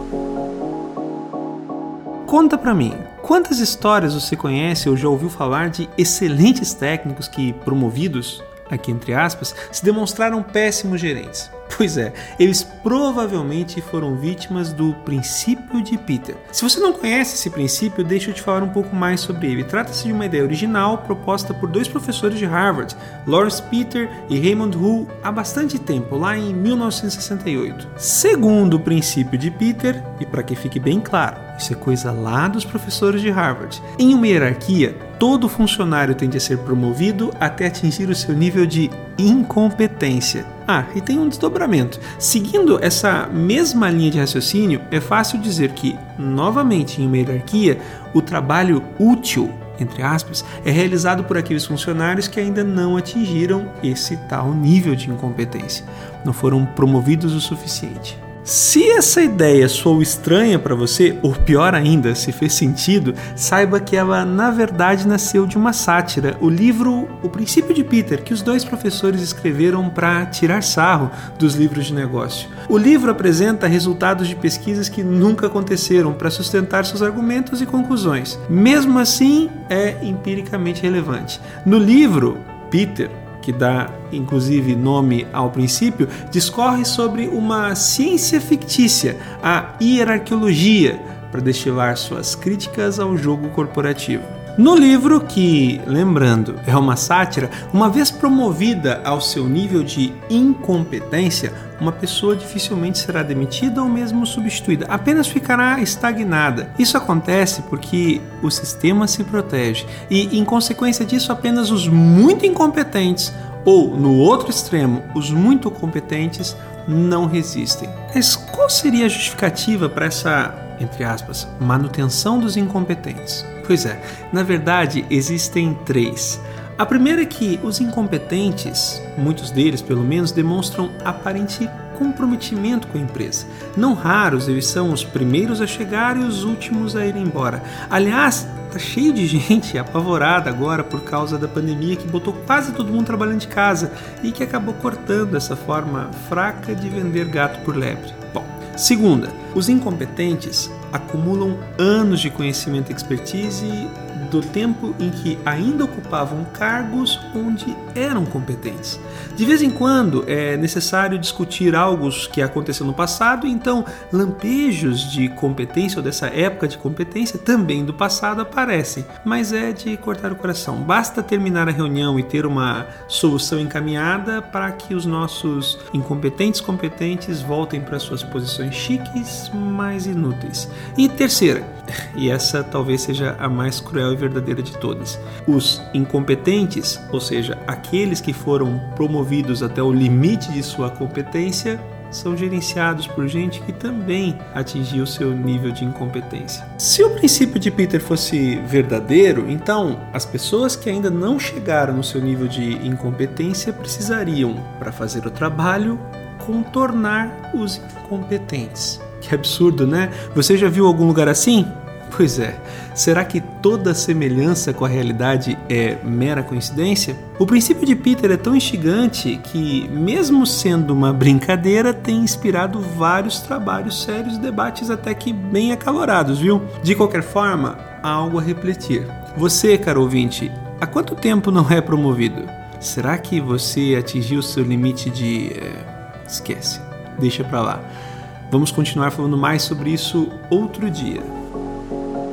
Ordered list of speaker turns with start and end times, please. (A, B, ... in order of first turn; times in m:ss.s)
0:02.2-3:57.9 A
3:58.5-4:01.3 A